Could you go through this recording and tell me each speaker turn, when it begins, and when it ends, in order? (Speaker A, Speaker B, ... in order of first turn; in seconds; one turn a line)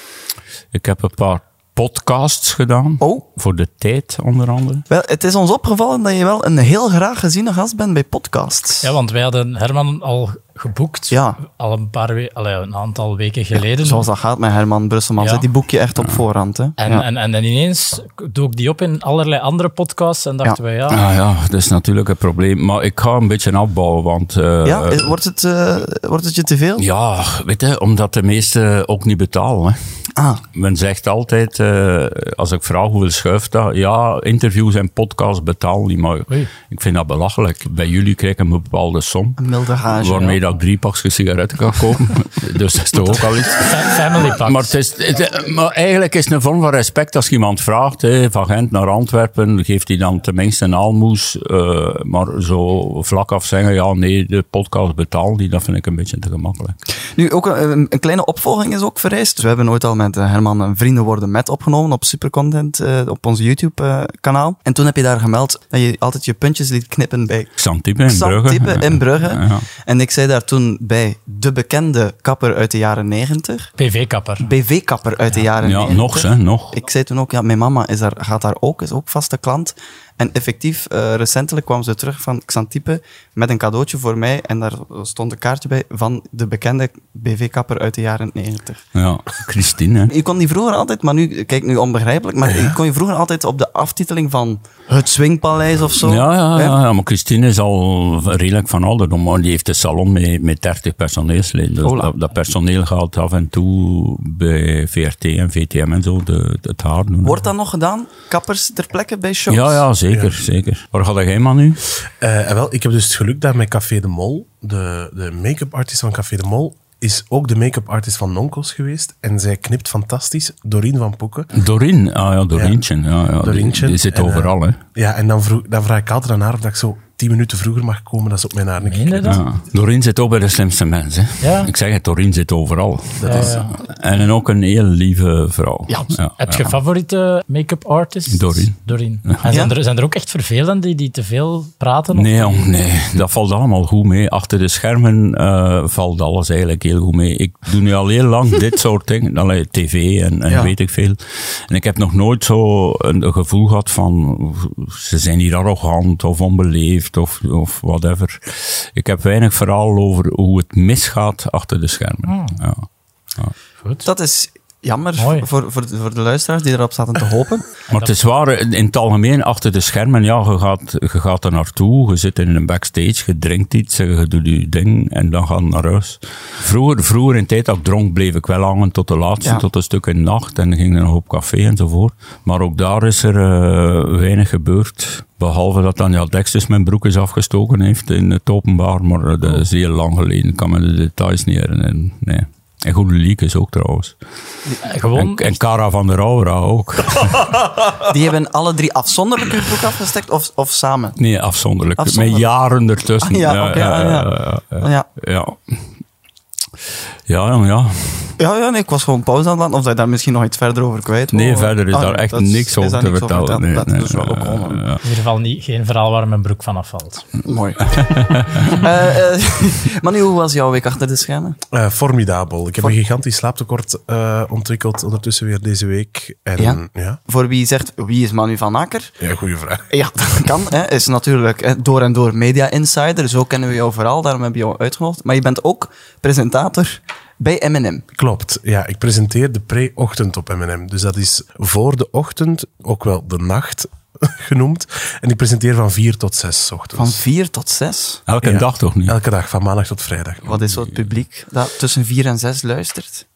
Speaker A: 0.7-4.8
Speaker B: 4.9-8.9
Speaker C: 8.8-14.1
Speaker B: 11.1-11.4
Speaker B: 13.8-17.0
Speaker C: 15.2-15.5
Speaker C: 16.8-21.0
Speaker A: 20.9-25.1
Speaker B: 24.6-26.8
Speaker A: 26.8-29.8
Speaker B: 30.1-30.4
Speaker A: 30.5-56.8
Speaker B: 39.4-40.4
Speaker C: 43.5-44.7
Speaker B: 57.1-67.5
Speaker A: 67.6-69.7
Speaker B: 68.1-73.7
Speaker C: 73.8-74.5
Speaker B: 74.4-88.8
Speaker A: 75.6-76.8
Speaker A: 88.9-90.1
Speaker B: 90.1-96.8
Speaker A: 92.4-92.8
Speaker A: 96.0-107.5
Speaker B: 101.8-102.1
Speaker B: 107.2-109.8
Speaker A: 109.5-111.8
Speaker D: 112.2-121.5
Speaker A: 121.5-124.8
Speaker D: 122.5-122.8
Speaker D: 123.4-129.4
Speaker C: 128.8-129.4
Speaker A: 129.2-136.7
Speaker C: 131.4-131.7
Speaker D: 133.2-133.5
Speaker C: 133.2-133.8
Speaker B: 135.9-136.7
Speaker C: 136.4-142.6
Speaker A: 138.3-138.8
Speaker B: 139.5-139.7
Speaker A: 142.1-162.8
Speaker C: 162.2-162.6
Speaker B: 164.0-167.7
Speaker C: 165.2-165.5
Speaker A: 167.9-194.2
Speaker C: 194.8-195.5
Speaker A: 195.1-198.1
Speaker B: 198.0-201.2
Speaker A: 201.2-205.8
Speaker B: 202.0-202.5
Speaker B: 203.2-204.3
Speaker B: 204.8-205.1
Speaker A: 207.3-208.3
Speaker B: 208.4-214.8
Speaker A: 211.3-215.0
Speaker C: 215.0-217.2
Speaker B: 217.4-221.6
Speaker A: 218.0-218.8
Speaker D: 221.7-227.2
Speaker B: 226.6-229.1
Speaker D: 229.2-229.9
Speaker B: 229.9-238.1
Speaker D: 238.1-247.2
Speaker B: 246.9-248.2
Speaker A: 248.3-249.2
Speaker D: 248.4-250.6
Speaker B: 250.4-253.2